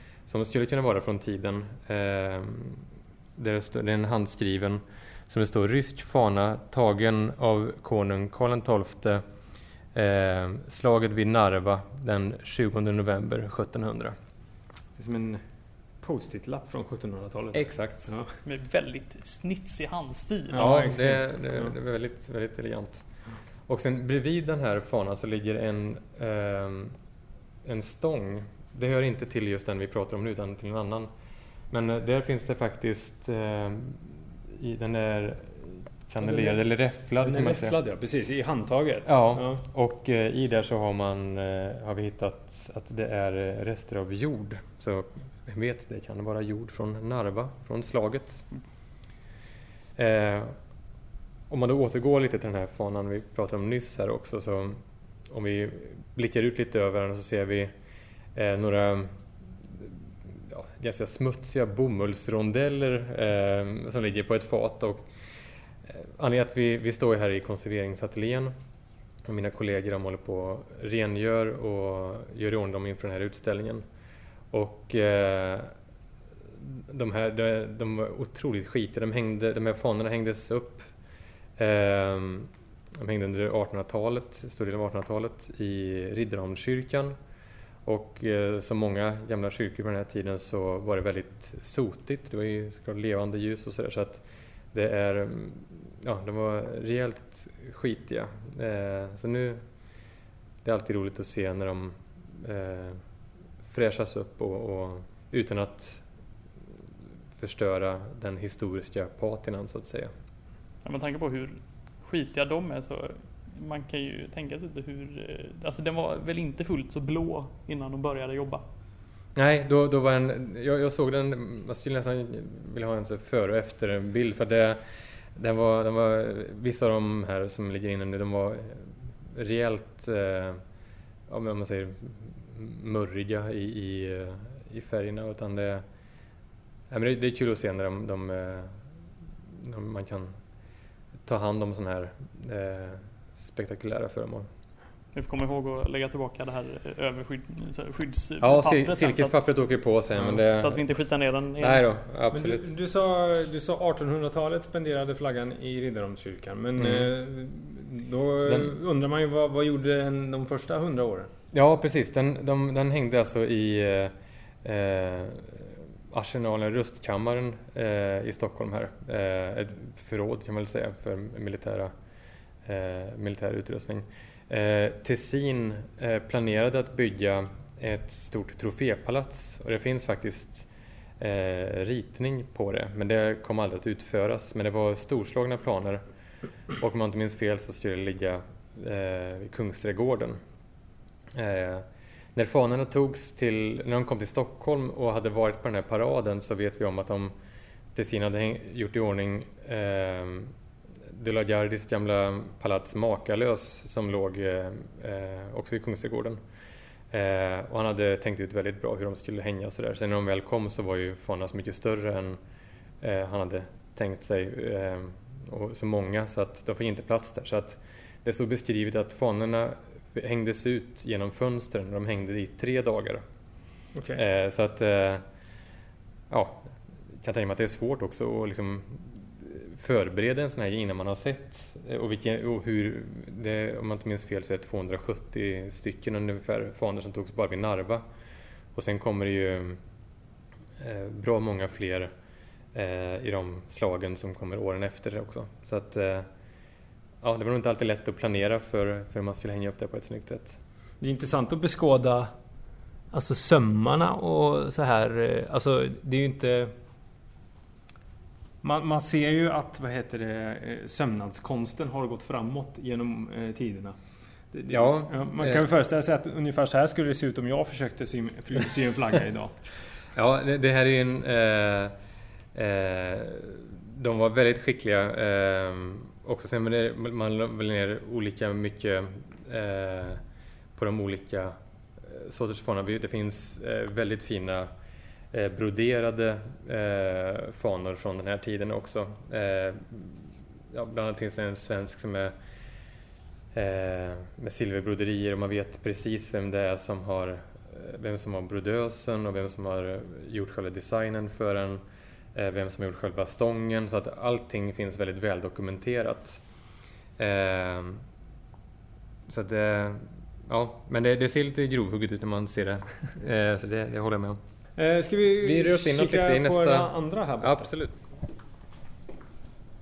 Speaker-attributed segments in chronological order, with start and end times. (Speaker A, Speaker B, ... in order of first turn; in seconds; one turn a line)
Speaker A: 0.2-9.2
Speaker A: 9.9-14.2
Speaker B: 15.0-15.4
Speaker B: 16.0-18.4
Speaker A: 17.5-18.1
Speaker C: 18.4-20.7
Speaker B: 20.5-21.7
Speaker A: 20.6-23.1
Speaker A: 23.7-27.0
Speaker A: 27.6-31.1
Speaker A: 31.7-37.8
Speaker B: 36.2-36.6
Speaker B: 37.2-39.6
Speaker A: 39.1-48.5
Speaker A: 50.0-50.6
Speaker A: 51.5-57.7
Speaker A: 58.4-65.1
Speaker A: 65.8-68.5
Speaker A: 69.2-73.8
Speaker A: 74.5-75.7
Speaker A: 76.5-80.9
Speaker A: 81.6-87.1
Speaker A: 87.8-99.7
Speaker A: 100.6-103.0
Speaker A: 103.7-106.1
Speaker A: 107.4-110.1
Speaker C: 110.8-118.6
Speaker A: 119.3-124.8
Speaker A: 125.3-130.6
Speaker A: 131.3-135.8
Speaker A: 136.9-138.8
Speaker A: 139.5-140.4
Speaker A: 141.2-144.5
Speaker C: 145.1-149.5
Speaker A: 148.4-150.9
Speaker C: 150.5-151.8
Speaker A: 151.6-152.7
Speaker B: 152.3-161.3
Speaker A: 156.8-157.1
Speaker A: 158.4-158.7
Speaker A: 161.5-171.9
Speaker A: 172.6-180.7
Speaker A: 181.2-186.0
Speaker A: 186.8-190.4
Speaker A: 191.3-197.3
Speaker A: 197.9-200.6
Speaker A: 201.1-206.4
Speaker A: 207.1-212.4
Speaker A: 213.0-223.2
Speaker B: 223.9-224.2
Speaker A: 224.1-225.2
Speaker A: 226.3-238.0
Speaker A: 238.7-239.8
Speaker A: 240.8-242.1
Speaker A: 242.7-246.3
Speaker A: 247.2-250.6
Speaker B: 251.0-252.3
Speaker B: 253.1-256.7
Speaker B: 258.6-263.9
Speaker B: 264.5-269.5
Speaker A: 264.7-265.6
Speaker A: 270.1-271.9
Speaker A: 272.6-280.2
Speaker A: 280.7-284.7
Speaker A: 285.3-292.3
Speaker A: 293.5-301.8
Speaker A: 302.4-306.4
Speaker A: 307.2-308.1
Speaker A: 309.3-314.4
Speaker B: 314.8-317.7
Speaker A: 315.4-318.1